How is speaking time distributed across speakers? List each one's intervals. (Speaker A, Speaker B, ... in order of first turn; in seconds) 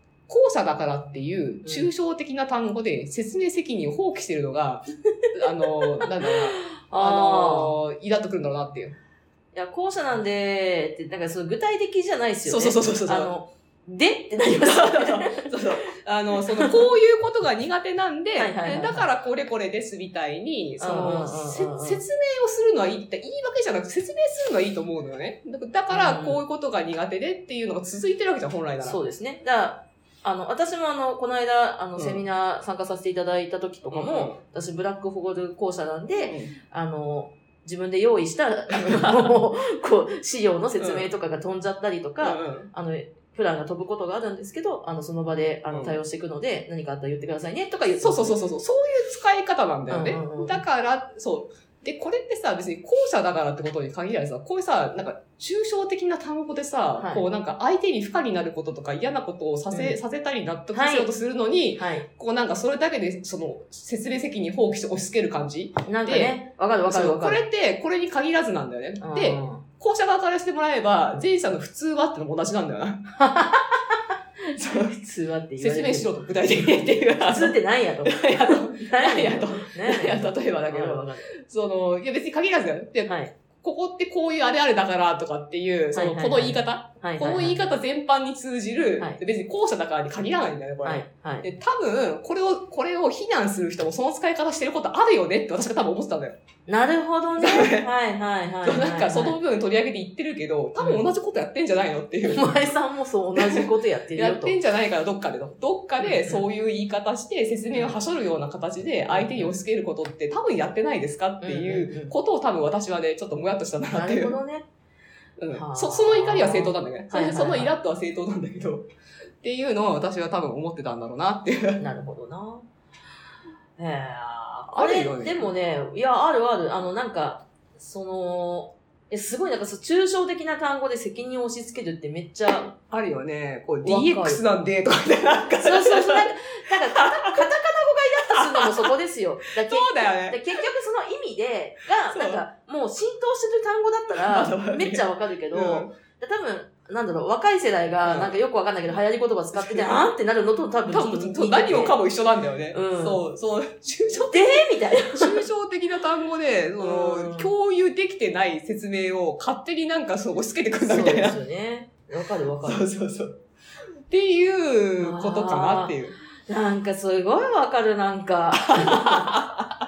Speaker A: 0.3-9.0, 12.5-13.3, 14.5-29.0, 32.0-32.2, 33.9-34.4, 36.1-36.5, 38.9-39.3, 40.8-41.1, 42.2-42.7, 45.7-46.0, 48.0-73.1, 74.6-75.0, 75.6-96.4, 97.4-97.9, 98.6-102.7, 103.3-114.4, 115.4-118.9, 119.4-121.9, 124.7-125.5, 132.8-137.5, 138.3-138.9, 139.6-140.6, 142.1-142.4, 144.1-145.9, 148.1-148.4, 149.6-150.1, 150.9-161.4, 162.5-163.4, 164.1-166.2, 168.7-169.6
Speaker B: 1.6-1.9, 6.3-7.8, 9.5-15.7, 18.4-19.1, 20.8-22.0, 25.9-26.4, 28.8-48.3, 49.9-50.6, 57.0-57.2, 59.7-60.0, 60.7-61.1, 61.8-62.1, 65.9-67.4, 69.0-69.6, 73.2-73.8, 74.6-81.3, 83.1-83.3, 85.9-87.6, 90.8-91.5, 96.7-99.4, 100.8-101.0, 102.2-104.6, 106.0-106.5, 109.1-109.5, 111.4-112.1, 113.9-114.7, 115.5-117.7, 121.8-122.7, 123.8-132.7, 133.8-134.4, 135.6-152.0, 152.7-153.2, 154.1-155.4, 156.8-157.5, 160.8-162.9, 165.0-169.5